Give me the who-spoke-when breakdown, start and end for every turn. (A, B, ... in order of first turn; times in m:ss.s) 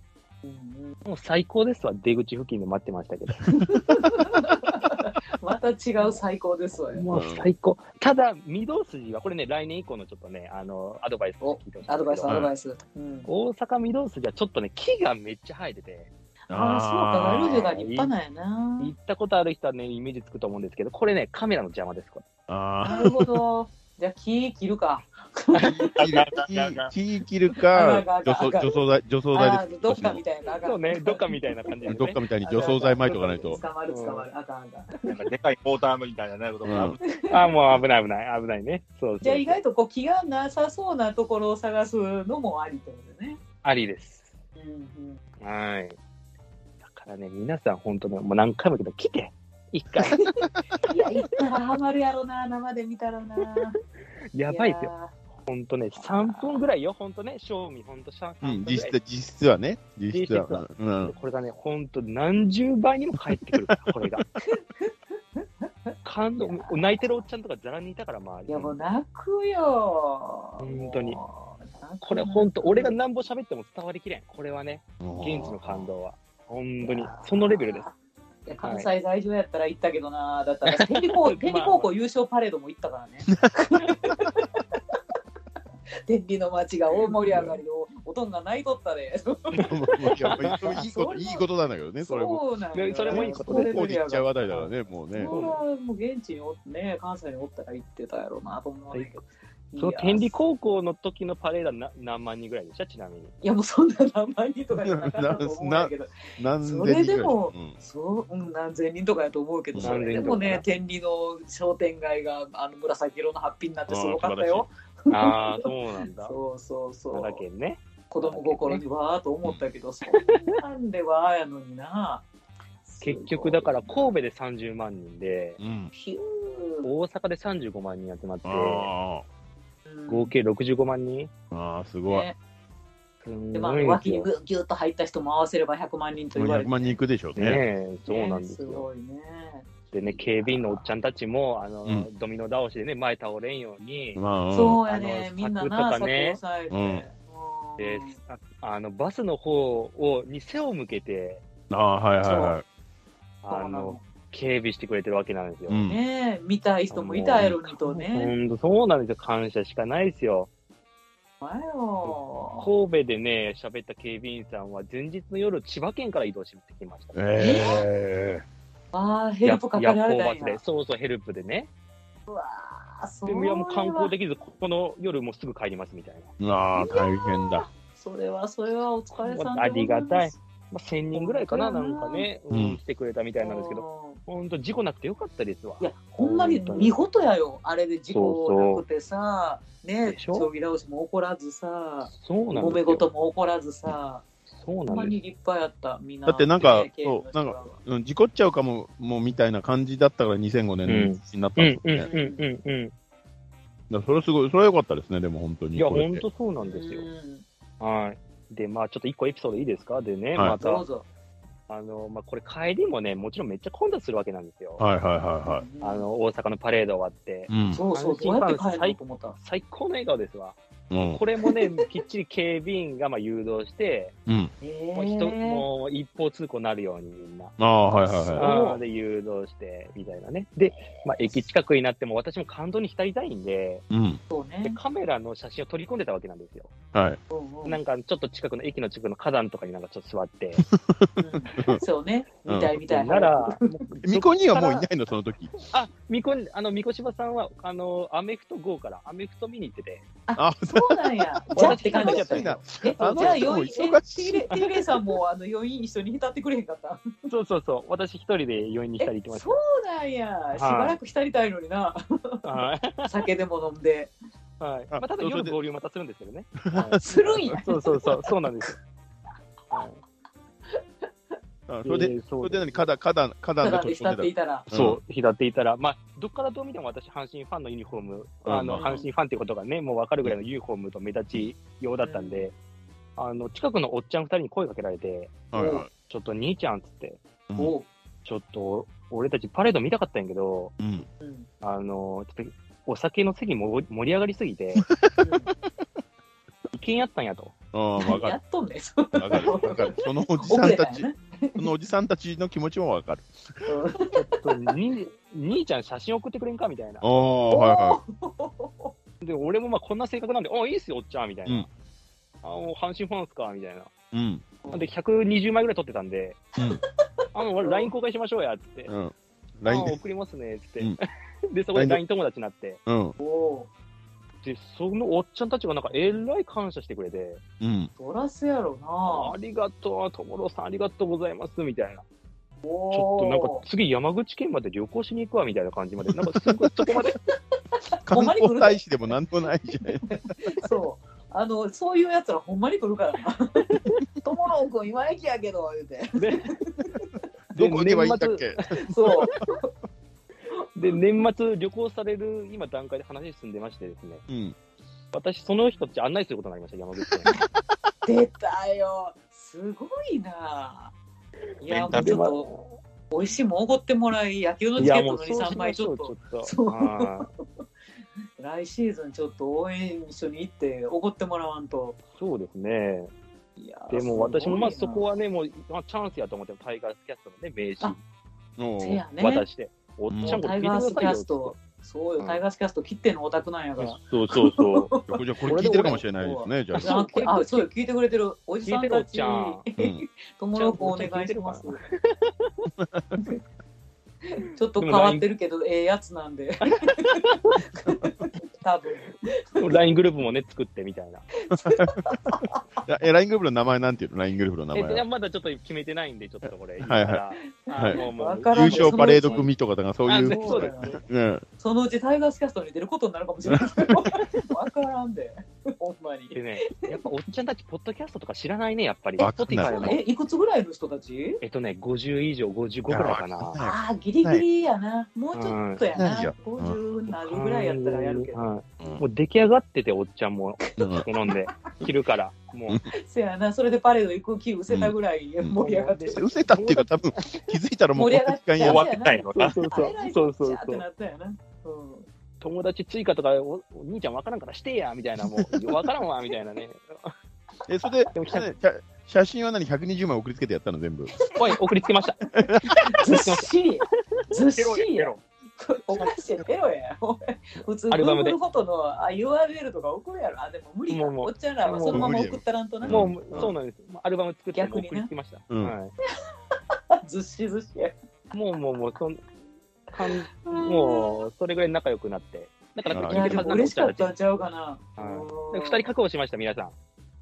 0:00.4-0:01.0 A
0:01.0-0:03.5 B
0:03.5-0:07.0 A
0:03.7-0:04.0 C
0:06.9-0:12.3 B
0:07.1-0:07.5 C
0:11.4-0:13.3 A
0:12.3-0:12.5 C
0:13.2-0:16.1 B
0:16.5-0:17.7 C
0:16.5-0:18.9 A
0:17.3-0:18.1 B
0:18.8-0:22.2 B
0:22.5-0:23.4 C
0:22.8-0:26.0 A
0:25.5-0:25.9 B
0:25.7-0:30.2 C
0:26.0-0:26.9 D
0:27.7-0:28.8 A
0:29.3-0:31.7 A
0:30.6-0:34.3 B
0:31.9-0:33.6 C
0:32.4-0:34.9 A
0:35.0-0:37.0 D
0:36.6-0:37.0 C
0:37.0-0:37.5 A
0:37.3-0:39.6 B
0:39.2-0:43.4 A
0:43.6-0:44.4 B
0:44.6-0:45.2 A
0:45.4-0:46.0 B
0:46.8-0:50.3 B
0:50.0-0:53.8 A
0:54.3-0:54.9 B
0:54.5-0:55.1 A
0:55.4-0:59.0 B
0:56.0-0:56.6 A
0:58.4-1:01.1 C
1:00.1-1:04.2 B
1:03.3-1:04.2 C
1:04.4-1:07.1 A
1:06.0-1:08.8 B
1:08.5-1:12.9 A
1:10.6-1:11.2 B
1:12.0-1:17.8 B
1:15.0-1:15.9 C
1:16.8-1:17.9 A
1:18.4-1:24.8 A
1:18.6-1:18.9 B
1:20.6-1:21.9 B
1:26.1-1:31.4 A
1:29.5-1:30.8 B
1:29.6-1:32.4 C
1:32.0-1:40.3 A
1:32.7-1:33.8 B
1:33.1-1:35.3 C
1:35.2-1:35.6 B
1:38.9-1:39.2 B
1:39.8-1:43.3 B
1:43.4-1:55.7 A
1:44.8-1:47.8 C
1:49.7-1:50.3 C
1:49.8-1:50.6 B
1:53.9-1:54.6 C
1:55.1-1:56.4 B
1:56.2-1:57.4 A
1:57.1-1:58.8 B
1:58.1-2:02.3 A
2:00.1-2:00.4 B
2:02.8-2:04.1 A
2:03.0-2:05.6 B
2:05.6-2:05.9 C
2:05.9-2:06.9 A
2:06.8-2:08.9 B
2:08.4-2:09.2 C
2:09.9-2:10.3 A
2:10.1-2:11.3 B
2:11.5-2:12.3 C
2:12.1-2:12.4 A
2:13.2-2:14.3 B
2:13.5-2:17.0 A
2:16.3-2:17.6 C
2:17.3-2:18.9 B
2:18.1-2:20.8 A
2:19.9-2:24.2 B
2:24.1-2:24.8 C
2:24.5-2:28.1 A
2:24.8-2:26.4 B
2:26.7-2:27.0 C
2:27.8-2:31.4 B
2:31.7-2:32.6 C
2:32.2-2:32.5 A
2:33.4-2:34.0 A
2:33.4-2:35.8 B
2:35.7-2:36.0 C
2:35.9-2:38.3 A
2:36.9-2:40.5 B
2:41.4-2:42.7 A
2:42.0-2:47.2 B
2:47.1-2:48.4 C
2:47.4-2:47.8 A
2:48.9-2:50.6 A
2:49.4-2:51.7 B
2:52.3-2:54.1 A
2:53.2-2:56.3 B
2:56.4-2:57.6 C
2:56.7-3:00.4 A
2:59.2-3:07.0 B
3:01.1-3:02.3 A
3:02.5-3:02.8 C
3:03.4-3:04.2 A
3:05.8-3:14.2 A
3:08.1-3:08.8 B
3:10.0-3:10.5 B
3:12.0-3:13.1 B
3:14.5-3:15.1 B
3:14.8-3:17.8 A
3:16.2-3:22.1 C
3:20.8-3:22.9 B
3:22.0-3:22.4 A
3:23.9-3:26.2 C
3:25.7-3:27.1 B
3:26.6-3:27.4 A
3:27.8-3:30.8 B
3:30.6-3:31.0 A
3:31.7-3:34.8 B
3:34.8-3:35.6 C
3:35.4-3:36.1 A
3:35.8-3:44.1 B
3:37.5-3:37.8 C
3:37.7-3:39.4 A
3:40.9-3:41.2 C
3:44.3-3:44.5 C
3:44.6-3:45.6 A
3:44.9-3:47.5 B
3:47.6-3:48.4 C
3:48.2-3:48.8 A
3:48.3-3:53.8 B
3:53.9-3:54.2 C
3:54.3-3:54.8 A
3:54.6-3:56.7 B
3:56.9-3:57.2 C
3:57.3-3:57.8 A
3:57.6-4:00.6 B
4:00.7-4:01.8 C
4:01.2-4:03.8 A
4:02.5-4:02.8 C
4:02.8-4:04.9 B
4:04.0-4:05.5 C
4:05.7-4:10.0 B
4:10.3-4:17.1 A
4:10.4-4:14.9 C
4:11.6-4:13.6 B
4:17.3-4:19.6 B
4:19.0-4:22.5 A
4:20.6-4:21.0 B
4:22.4-4:23.2 B
4:23.0-4:24.1 A
4:24.6-4:27.0 B
4:24.9-4:25.5 C
4:26.6-4:27.6 C
4:26.8-4:28.2 A
4:27.6-4:28.8 B
4:29.7-4:30.0 B
4:31.7-4:35.0 C
4:31.8-4:32.8 B
4:33.6-4:34.7 A
4:34.7-4:42.5 B
4:38.4-4:39.0 C
4:38.7-4:39.1 A
4:42.0-4:42.5 A
4:43.2-4:45.4 B
4:45.5-4:45.9 C
4:45.5-4:45.8 A
4:46.1-4:47.2 B
4:47.6-4:47.8 A
4:48.2-4:50.7 B
4:50.8-4:51.1 C
4:51.2-4:51.5 A
4:51.6-4:54.8 B
4:55.0-4:55.5 C
4:55.2-4:55.5 A
4:56.7-4:57.5 B
4:57.7-4:58.4 C
4:58.0-5:01.7 A
4:59.1-5:03.3 C
5:03.6-5:04.6 A
5:04.1-5:07.1 B
5:07.0-5:08.0 C
5:07.5-5:08.9 A
5:09.2-5:11.7 B
5:12.4-5:13.9 B
5:14.1-5:14.5 C
5:14.7-5:16.4 B
5:16.6-5:16.8 C
5:17.3-5:18.9 B
5:17.6-5:17.9 A
5:18.9-5:20.0 C
5:19.6-5:22.8 B
5:21.7-5:22.0 C
5:22.8-5:23.1 C
5:23.2-5:23.7 A
5:24.4-5:27.4 B
5:27.6-5:27.9 C
5:28.0-5:29.3 A
5:29.1-5:32.0 B
5:32.6-5:33.6 A
5:32.9-5:37.2 B
5:38.0-5:38.8 A
5:38.0-5:40.6 C
5:40.1-5:43.7 A
5:43.7-5:44.0 B
5:44.2-5:47.1 A
5:46.1-5:46.5 B
5:47.5-5:49.4 C
5:47.5-5:48.6 B
5:48.8-5:49.7 A
5:50.8-5:54.2 B
5:54.3-5:54.6 C
5:55.1-5:57.3 B
5:58.0-6:00.9 A
6:01.6-6:02.5 A
6:01.7-6:02.2 D
6:01.9-6:02.7 B
6:03.1-6:07.3 A
6:04.8-6:07.3 B
6:08.4-6:12.0 A
6:12.1-6:13.1 B
6:13.6-6:15.0 A
6:13.9-6:18.0 B
6:18.6-6:19.0 C
6:18.8-6:19.4 A
6:19.2-6:21.6 B
6:20.1-6:20.4 C
6:20.2-6:31.8 A
6:23.8-6:24.9 B
6:25.1-6:27.0 C
6:25.4-6:26.0 B
6:26.7-6:27.7 B
6:28.6-6:29.6 B
6:29.8-6:30.0 C
6:30.5-6:32.7 B
6:32.7-6:33.2 C
6:34.2-6:39.7 A
6:34.8-6:35.3 B
6:36.6-6:37.6 B
6:39.5-6:41.3 B
6:41.4-6:42.6 A
6:41.5-6:42.2 C
6:42.8-6:45.0 C
6:44.7-6:49.5 B
6:46.8-6:47.2 C
6:47.5-6:49.5 A
6:47.7-6:48.0 C
6:48.5-6:51.4 C
6:50.0-6:51.0 B
6:50.2-6:51.0 A
6:51.6-6:57.0 A
6:53.4-6:54.1 C
6:56.3-7:00.0 B
6:59.2-7:00.0 C
6:59.7-7:01.4 A
7:01.4-7:03.6 B
7:02.9-7:04.4 C
7:03.6-7:08.4 A
7:05.3-7:05.8 B
7:05.9-7:06.8 C
7:07.2-7:12.8 B
7:10.8-7:11.0 C
7:12.9-7:16.2 A
7:14.7-7:15.6 C
7:15.6-7:17.4 B
7:16.1-7:18.9 C
7:17.9-7:22.1 A
7:18.6-7:19.6 D
7:19.3-7:20.8 B
7:22.4-7:27.1 B
7:27.7-7:31.2 C
7:28.1-7:28.4 B
7:31.4-7:32.2 B
7:32.3-7:33.0 C
7:32.9-7:43.5 A
7:32.9-7:33.5 B
7:34.5-7:35.2 D
7:35.9-7:36.4 D
7:37.9-7:38.4 B
7:40.9-7:42.2 B
7:41.9-7:43.5 C
7:42.9-7:45.9 B
7:44.5-7:45.1 A
7:46.5-7:48.0 A
7:48.3-7:49.2 B
7:49.9-7:54.1 B
7:50.1-7:51.2 A
7:52.9-7:53.7 C
7:53.0-7:55.9 A
7:55.0-7:56.7 B